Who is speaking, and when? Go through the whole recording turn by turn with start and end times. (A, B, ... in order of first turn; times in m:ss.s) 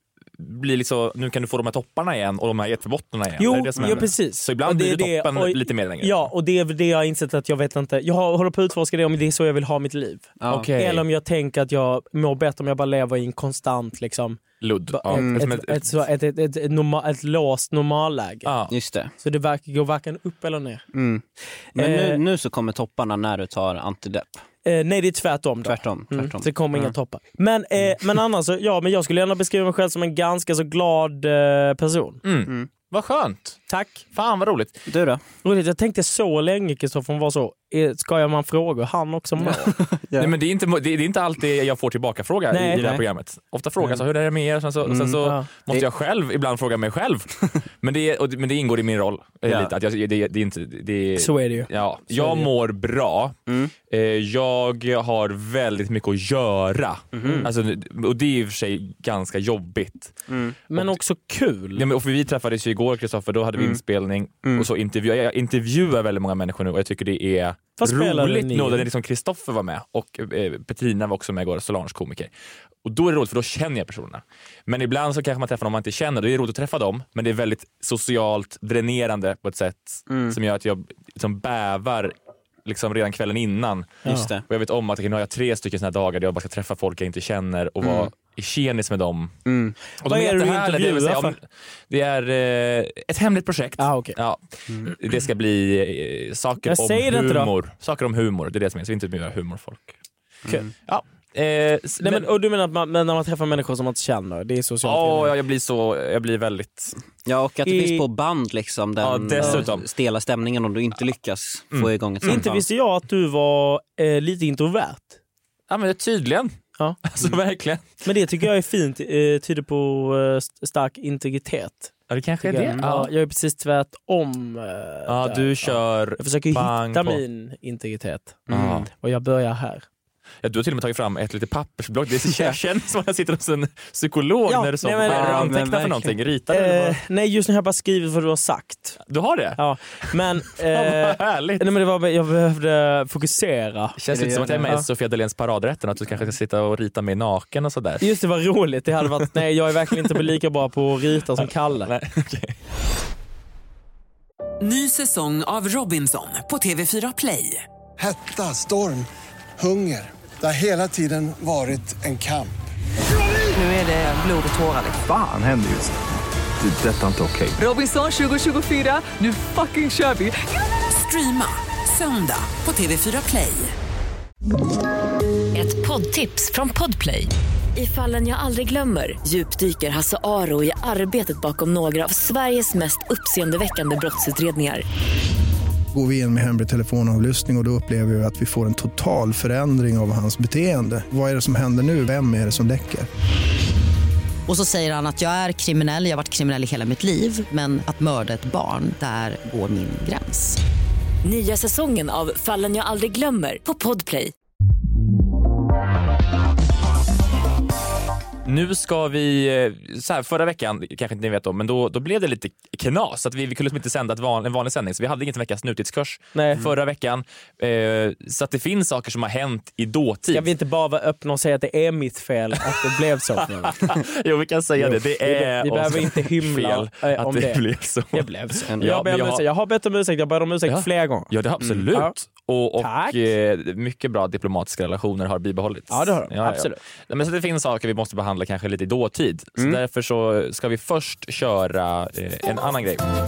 0:00.4-0:06.3 A
0:03.4-0:18.5 B
0:03.8-0:04.0 C
0:10.4-0:10.7 C
0:10.5-0:11.0 A
0:14.6-0:16.0 A
0:15.2-0:15.4 C
0:18.4-0:18.7 A
0:18.7-0:19.1 C
0:19.2-0:20.9 B
0:20.9-0:24.4 C
0:21.8-0:22.2 B
0:24.6-0:32.2 B
0:25.6-0:26.9 C
0:32.2-0:33.6 A
0:33.7-0:34.0 B
0:34.1-0:34.8 A
0:34.9-0:35.2 C
0:35.4-0:39.7 B
0:39.4-0:40.3 C
0:40.2-0:53.4 A
0:42.5-0:42.9 B
0:42.8-0:43.0 C
0:44.8-0:45.8 C
0:45.2-0:45.5 B
0:49.5-0:49.7 C
0:51.2-0:52.5 B
0:53.5-0:53.7 C
0:53.9-1:00.1 A
0:57.1-0:57.5 C
1:00.3-1:00.6 C
1:00.7-1:01.9 B
1:01.7-1:12.3 A
1:07.8-1:08.9 B
1:12.8-1:29.4 A
1:20.1-1:20.4 C
1:24.0-1:24.3 B
1:24.0-1:24.4 C
1:27.8-1:28.1 C
1:29.5-1:29.8 C
1:30.0-1:39.9 A
1:30.0-1:31.4 B
1:33.8-1:34.2 B
1:36.6-1:37.5 B
1:40.5-1:40.7 C
1:40.9-1:42.3 A
1:42.0-1:45.3 B
1:44.8-1:47.0 A
1:47.2-1:52.6 C
1:47.7-1:48.0 B
1:49.0-1:49.9 A
1:49.4-1:49.6 B
1:51.7-1:52.4 A
1:52.2-1:55.2 B
1:55.7-1:58.0 A
1:58.0-2:08.4 B
2:02.1-2:03.1 A
2:05.1-2:07.2 A
2:08.5-2:08.9 C
2:08.5-2:08.9 A
2:09.0-2:09.8 B
2:10.4-2:17.0 A
2:12.3-2:12.6 C
2:14.5-2:15.6 B
2:15.1-2:16.2 C
2:16.5-2:19.0 B
2:19.0-2:19.6 A
2:19.6-2:24.0 B
2:20.5-2:21.6 A
2:24.0-2:28.1 A
2:24.1-2:24.7 C
2:28.0-2:31.9 B
2:31.4-2:32.6 A
2:34.6-2:37.6 D
2:38.0-2:42.6 E
2:43.5-2:45.0 D
2:45.0-2:46.0 F
2:46.6-2:47.6 F
2:47.6-2:53.7 D
2:55.5-3:04.8 G
3:05.9-3:13.1 H
3:14.5-3:20.6 I
3:21.2-3:24.3 G
3:28.4-3:40.5 A
3:36.4-3:36.6 B
3:40.3-3:43.8 B
3:43.4-3:49.4 A
3:44.8-3:51.3 B
3:50.7-4:03.0 A
3:52.8-3:53.2 B
3:55.9-3:56.8 B